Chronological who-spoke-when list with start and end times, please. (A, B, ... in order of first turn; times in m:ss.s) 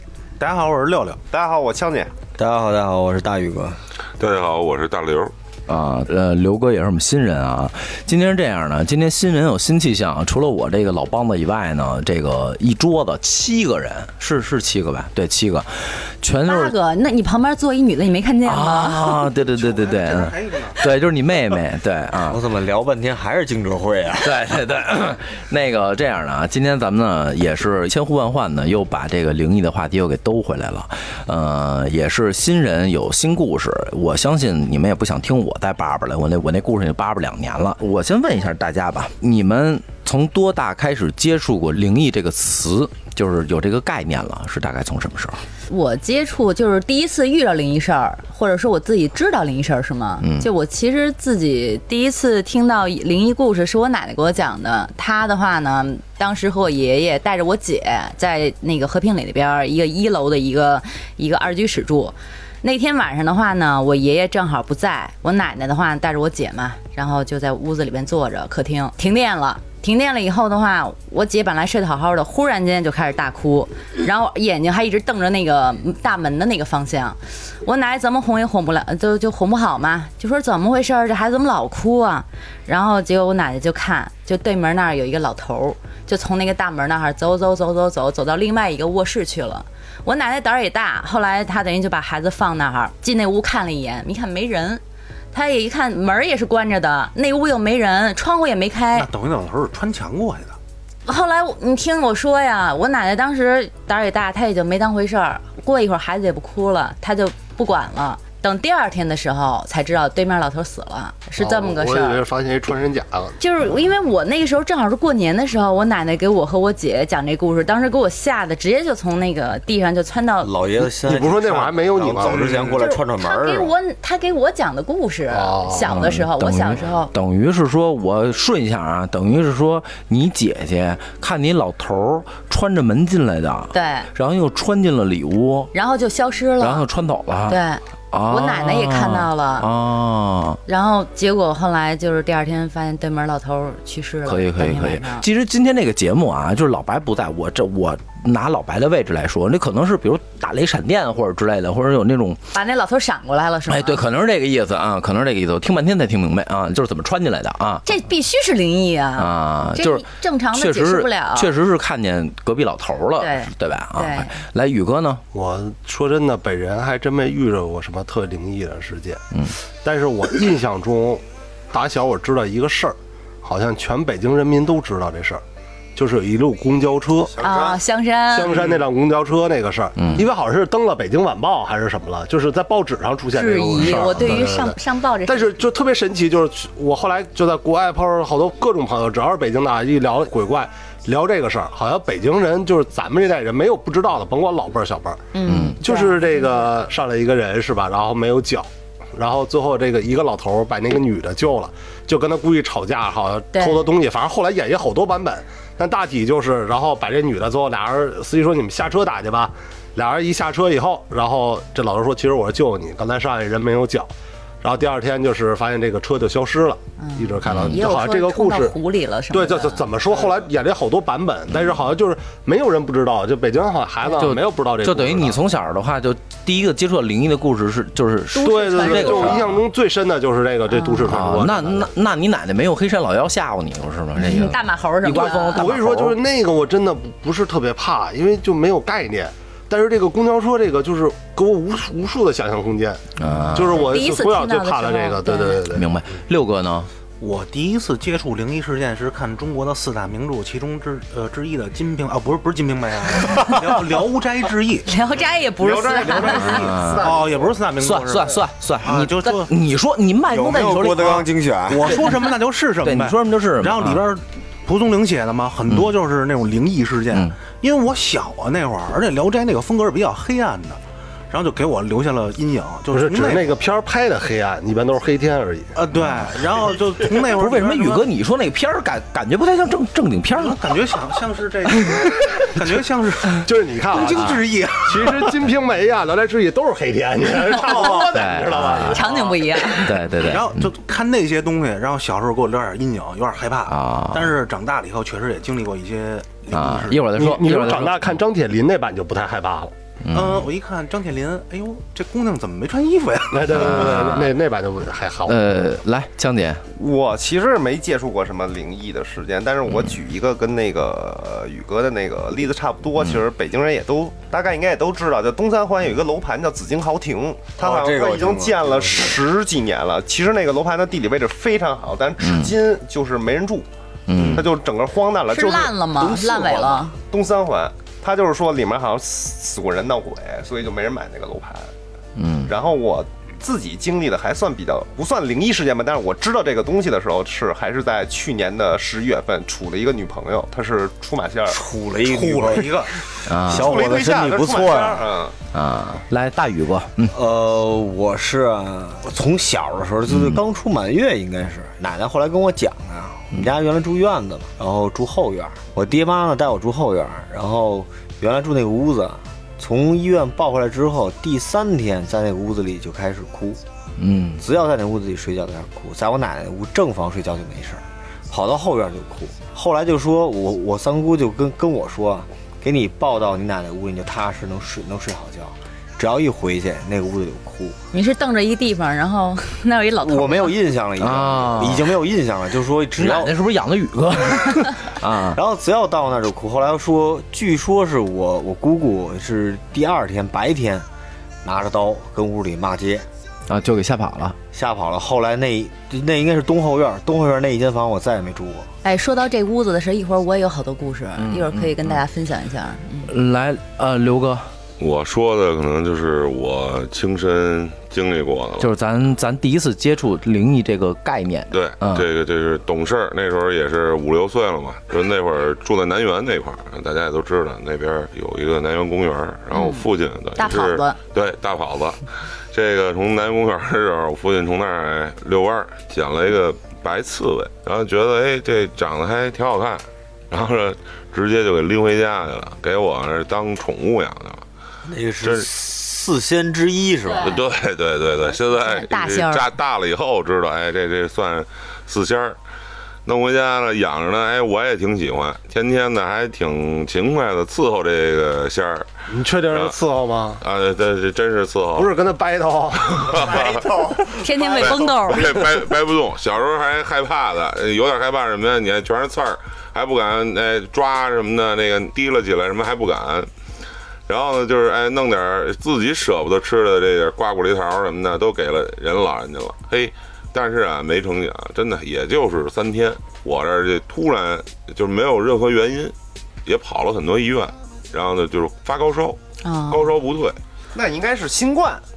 0:00.4-0:01.2 A
0:01.3-0:02.1 B
0:02.4-0:03.8 C
0:04.2-0:05.3 D
0:05.7-0:16.7 E
0:16.4-0:19.2 F
0:18.4-0:22.4 E
0:19.4-0:20.8 A
0:22.2-0:24.4 C
0:24.2-0:45.4 E
0:45.7-1:34.8 F
0:50.2-0:50.5 E
1:35.3-1:39.1 F
1:38.9-1:40.6 A
1:41.0-1:52.2 F
1:51.4-1:53.4 G
1:53.4-2:00.5 F
2:00.4-2:03.7 C
2:01.0-2:02.8 G
2:02.7-2:07.1 F
2:05.3-2:05.8 G
2:05.8-2:15.7 E
2:13.7-2:14.1 F
2:15.7-2:16.8 F
2:16.6-2:17.6 E
2:17.5-2:19.7 F
2:18.1-2:20.6 E
2:20.6-2:25.2 F
2:24.2-2:32.4 E
2:32.5-2:34.0 F
2:33.7-2:37.8 E
2:37.8-2:41.5 F
2:39.2-2:45.2 E
2:43.2-2:44.4 F
2:45.3-2:49.2 G
2:49.7-2:55.4 G
2:55.9-2:57.4 G
2:57.4-2:57.8 C
2:57.4-2:58.6 F
2:58.3-3:38.8 G
3:00.0-3:00.3 E
3:03.3-3:05.6 F
3:03.9-3:04.4 E
3:15.3-3:16.7 F
3:15.4-3:15.8 E
3:23.5-3:23.9 F
3:37.0-3:39.8 F
3:37.4-3:37.8 E
3:39.3-3:45.4 G
3:41.5-3:41.8 E
3:44.2-3:49.6 E
3:48.3-3:49.4 F
3:48.4-3:51.9 G
3:50.7-3:51.0 F
3:51.0-3:56.2 E
3:54.2-3:55.7 F
3:55.2-4:05.9 G
4:03.2-4:03.9 E
4:03.7-4:05.6 F
4:05.7-4:06.9 E
4:07.2-4:14.9 A
4:14.8-4:16.7 F
4:15.6-4:17.5 B
4:15.9-4:19.5 A
4:16.4-4:17.1 E
4:17.8-4:21.3 E
4:20.3-4:22.0 C
4:21.7-4:33.5 A
4:22.8-4:24.0 E
4:25.7-4:25.9 E
4:32.9-4:35.7 G
4:35.7-4:38.1 A
4:37.3-4:40.6 E
4:40.3-4:45.4 A
4:43.4-4:44.2 G
4:44.9-4:49.4 G
4:47.5-4:48.2 A
4:48.1-4:49.0 E
4:48.8-4:49.9 F
4:49.8-4:50.7 E
4:50.1-4:57.2 A
4:53.7-4:54.4 E
4:56.5-4:58.1 E
4:57.1-4:59.7 G
5:00.0-5:00.5 E
5:00.1-5:03.9 A
5:03.3-5:05.4 G
5:03.6-5:04.3 E
5:05.2-5:06.6 E
5:06.8-5:23.7 B
5:17.6-5:19.2 C
5:22.2-5:22.5 E
5:24.1-5:24.5 E
5:24.1-5:24.4 C
5:24.2-5:25.7 B
5:25.3-5:26.9 F
5:26.0-5:27.0 C
5:27.1-5:31.7 B
5:32.2-5:32.5 E
5:32.4-5:41.6 B
5:41.5-5:45.1 C
5:42.0-5:43.0 A
5:43.2-5:43.8 E
5:43.5-5:45.4 B
5:45.5-5:47.1 E
5:47.1-6:03.6 C
5:50.1-5:50.4 E
6:04.0-6:04.4 E
6:04.4-6:17.8 C
6:17.9-6:20.5 F
6:20.0-6:23.3 C
6:21.0-6:21.9 E
6:23.0-6:25.4 E
6:25.1-6:30.9 C
6:31.4-6:33.1 C
6:33.5-6:34.4 E
6:34.5-6:38.7 C
6:38.8-6:43.1 F
6:41.2-6:42.0 E
6:43.0-6:44.5 E
6:44.8-6:48.7 D
6:48.6-6:52.1 E
6:51.5-7:14.4 D
6:59.5-6:59.8 F
7:00.4-7:01.0 F
7:14.8-7:17.4 C
7:15.2-7:15.5 D
7:17.2-7:22.4 D
7:18.6-7:19.5 F
7:23.0-7:28.9 D
7:29.1-7:30.4 G
7:30.4-7:31.9 D
7:31.7-7:33.1 G
7:32.9-7:33.8 D
7:33.1-7:35.5 C
7:34.1-7:35.3 F
7:34.6-7:43.3 D
7:44.1-7:55.9 D
7:56.4-8:00.4 D
7:59.4-7:59.9 F
8:00.7-8:01.8 B